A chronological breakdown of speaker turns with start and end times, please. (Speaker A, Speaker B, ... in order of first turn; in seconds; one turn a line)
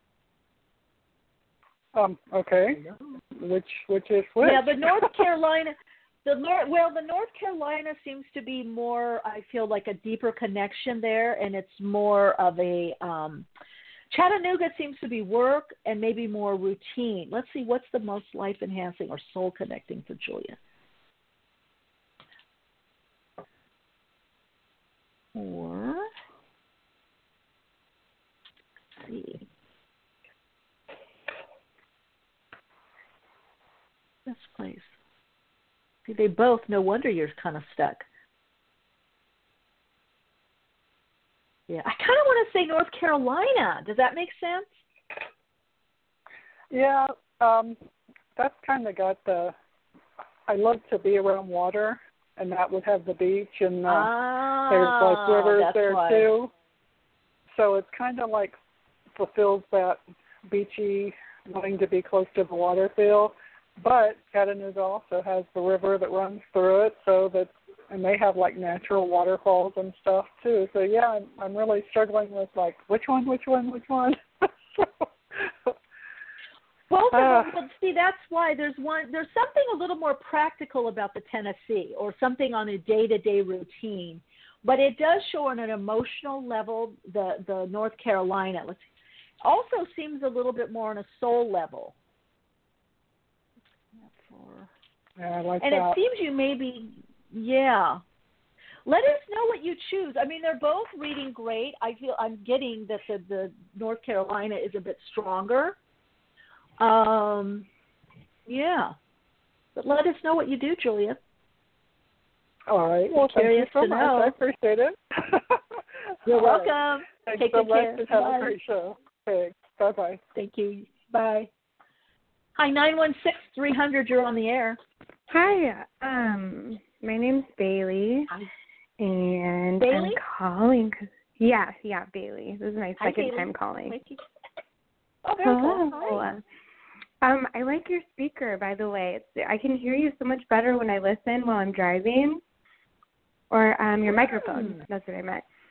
Speaker A: 1.9-2.8
Speaker B: 2.8-3.1
Speaker A: 3.4-4.9
Speaker B: 4.4-13.5
Speaker B: 14.1-20.6
Speaker B: 25.4-26.1
Speaker B: 29.0-29.5
Speaker B: 34.3-34.9
Speaker B: 36.1-38.0
Speaker B: 41.7-44.7
Speaker A: 46.7-47.8
Speaker A: 48.4-49.5
Speaker A: 50.5-54.1
Speaker B: 53.9-56.3
Speaker A: 54.7-56.5
Speaker A: 57.5-58.6
Speaker A: 59.2-75.7
Speaker B: 76.9-88.8
Speaker A: 77.1-77.5
Speaker B: 89.4-92.0
Speaker B: 94.0-94.7
Speaker A: 95.2-96.0
Speaker B: 95.6-98.0
Speaker B: 98.9-105.8
Speaker B: 106.8-107.7
Speaker B: 108.5-109.0
Speaker B: 109.8-111.2
Speaker A: 112.7-115.6
Speaker B: 113.1-114.3
Speaker A: 116.3-116.7
Speaker B: 116.3-118.5
Speaker A: 117.3-120.2
Speaker B: 120.3-121.5
Speaker B: 122.6-124.8
Speaker C: 125.3-128.3
Speaker C: 129.0-134.0
Speaker B: 129.8-130.2
Speaker B: 133.0-134.2
Speaker B: 135.2-136.3
Speaker C: 135.4-136.4
Speaker C: 137.2-142.4
Speaker C: 143.5-145.4
Speaker B: 144.1-144.8